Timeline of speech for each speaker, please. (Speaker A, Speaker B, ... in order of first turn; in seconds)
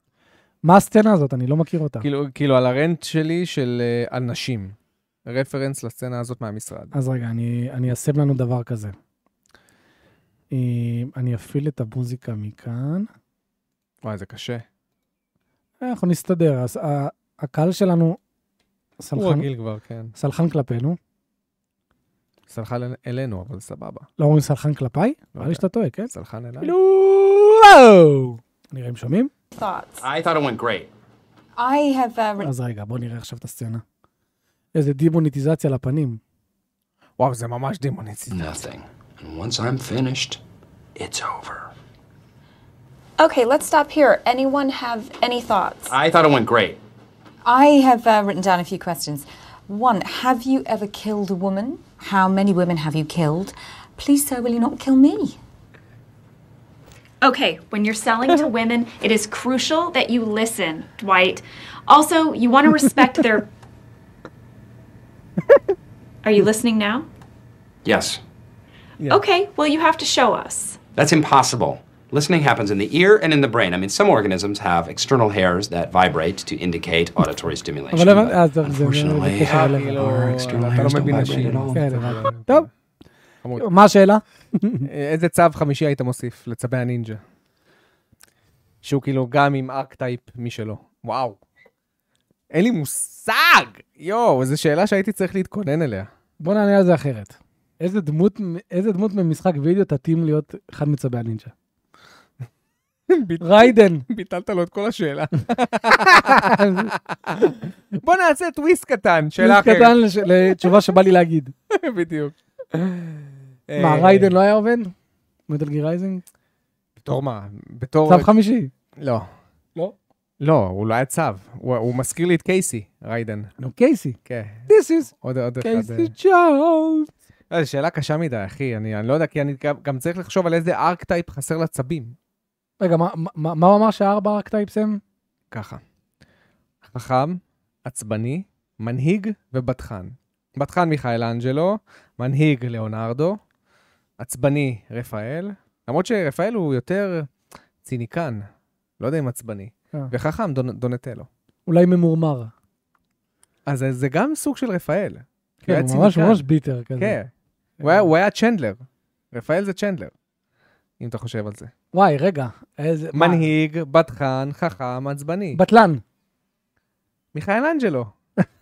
Speaker A: 0.6-2.1, 6.9-8.9, 10.5-13.1, 15.8-18.2, 19.0-19.5, 20.1-21.0, 24.2-29.3, 32.4-33.8, 34.7-36.2, 77.9-80.2, 81.7-82.7, 83.6-84.9, 96.4-101.5, 103.4-104.1, 105.9-106.9, 109.4-111.5, 113.8-114.9, 115.5-116.2, 118.1-118.7, 123.6-127.1, 132.8-135.0, 151.7-152.5, 155.7-157.2, 157.8-158.1, 161.9-163.5, 165.5-166.0
Speaker B: 2.0-6.9, 14.0-14.7, 19.1-20.1, 22.5-24.1, 25.4-26.7, 37.2-38.6, 79.4-82.7, 83.4-83.7, 84.8-87.2, 88.8-91.4, 92.5-96.1, 103.1-110.8, 111.7-114.3, 117.0-118.3, 119.0-119.3, 120.4-123.5, 124.3-126.1, 127.5-132.2, 135.5-135.8, 136.8-143.4, 144.2-147.3, 147.8-148.4, 149.0-151.3, 153.7-156.4, 157.0-157.3, 157.8-160.1, 161.0-161.7, 163.1-165.6, 167.3-168.1
Speaker C: 29.6-30.0, 31.6-32.5, 43.2-46.0, 47.5-55.4
Speaker D: 30.0-30.9, 38.3-40.4, 41.0-41.7, 45.9-46.8, 67.8-68.2, 71.0-82.2
Speaker E: 57.2-63.5, 66.2-67.1, 69.1-70.8